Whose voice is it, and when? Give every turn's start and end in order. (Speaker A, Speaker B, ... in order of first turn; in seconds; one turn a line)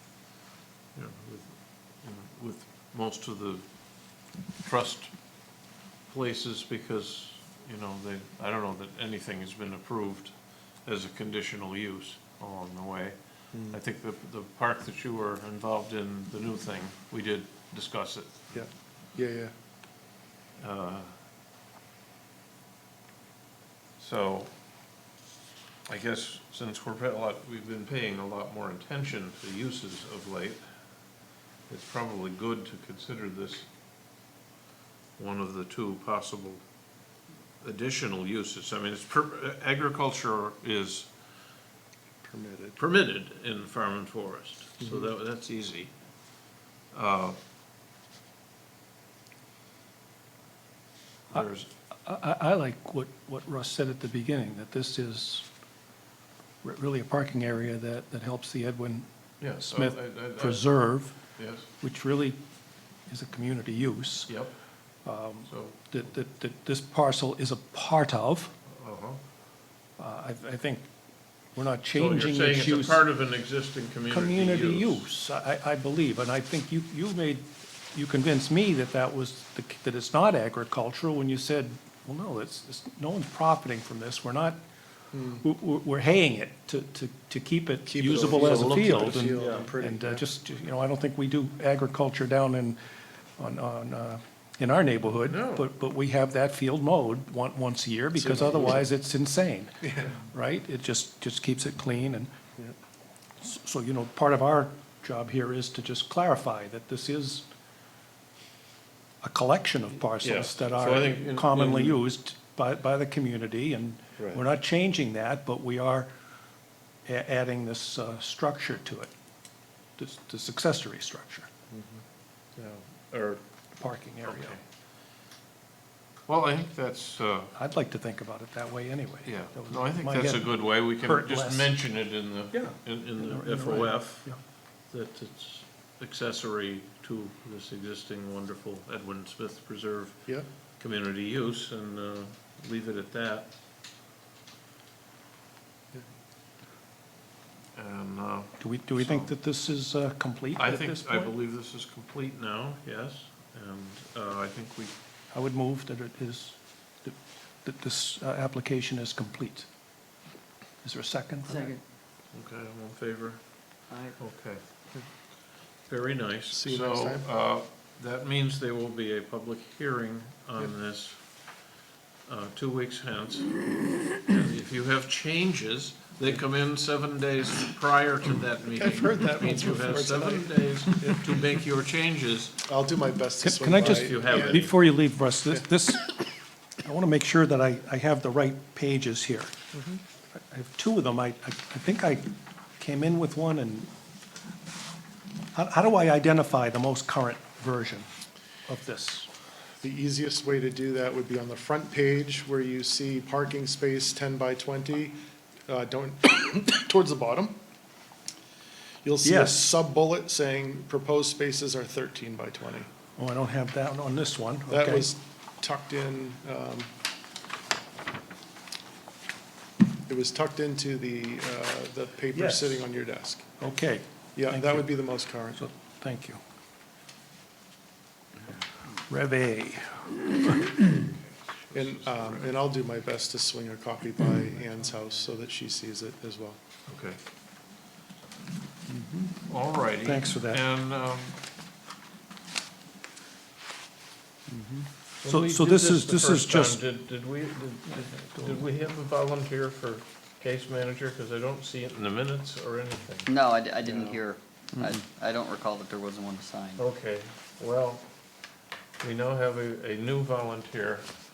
Speaker A: 0.9-18.5
Speaker B: 13.5-13.8
Speaker B: 18.5-19.5
Speaker A: 20.6-21.2
Speaker A: 24.0-24.5
Speaker A: 25.9-30.7
Speaker A: 31.7-33.7
Speaker A: 35.2-36.6
Speaker A: 37.6-41.1
Speaker B: 42.2-42.8
Speaker A: 42.8-46.0
Speaker A: 46.9-47.4
Speaker A: 51.3-51.7
Speaker C: 52.0-55.5
Speaker C: 56.6-61.2
Speaker A: 59.4-60.7
Speaker A: 61.4-61.7
Speaker C: 61.8-62.4
Speaker C: 63.1-64.3
Speaker A: 64.3-64.5
Speaker C: 65.0-68.5
Speaker A: 65.5-66.1
Speaker A: 68.7-69.2
Speaker C: 70.0-70.9
Speaker C: 71.5-73.1
Speaker A: 71.9-75.0
Speaker C: 74.1-84.6
Speaker B: 85.1-85.4
Speaker C: 85.3-92.8
Speaker B: 87.9-90.2
Speaker A: 88.2-89.6
Speaker C: 93.4-102.3
Speaker A: 95.3-95.7
Speaker B: 98.2-98.9
Speaker B: 99.8-100.1
Speaker C: 103.4-107.5
Speaker C: 109.2-116.1
Speaker A: 110.2-112.0
Speaker A: 114.2-114.5
Speaker C: 117.1-119.1
Speaker C: 120.0-121.5
Speaker A: 121.7-122.0
Speaker A: 122.5-123.4
Speaker C: 123.8-124.6
Speaker A: 124.2-124.6
Speaker A: 126.3-127.5
Speaker C: 127.5-131.8
Speaker A: 129.2-143.5
Speaker C: 132.5-134.4
Speaker A: 147.8-149.3
Speaker C: 148.6-151.3
Speaker A: 150.6-154.9
Speaker C: 155.3-159.7
Speaker C: 160.8-161.7
Speaker D: 161.5-161.8
Speaker A: 162.3-163.4
Speaker D: 163.9-164.2
Speaker A: 164.2-164.6
Speaker A: 165.9-171.2
Speaker B: 166.5-167.3
Speaker A: 172.3-182.6
Speaker B: 178.8-181.2
Speaker B: 182.7-184.7
Speaker C: 183.4-186.3
Speaker A: 183.7-184.8
Speaker C: 186.8-189.6
Speaker C: 190.3-193.9
Speaker C: 195.6-198.1
Speaker C: 198.7-199.3
Speaker B: 199.8-205.2
Speaker B: 205.7-207.6
Speaker B: 209.0-212.9
Speaker C: 209.2-209.7
Speaker C: 213.2-215.1
Speaker B: 214.7-216.9
Speaker B: 220.1-223.4
Speaker C: 222.3-222.8
Speaker C: 223.6-226.4
Speaker B: 224.4-225.6
Speaker C: 229.1-230.9
Speaker A: 231.6-232.6
Speaker B: 231.7-236.6
Speaker A: 236.9-237.2
Speaker C: 238.9-239.4
Speaker A: 239.5-241.4
Speaker C: 240.0-240.6
Speaker C: 244.5-246.8
Speaker A: 245.2-253.3
Speaker C: 248.0-248.6
Speaker D: 253.3-256.8
Speaker A: 253.8-254.2
Speaker A: 256.8-258.1
Speaker A: 259.0-261.1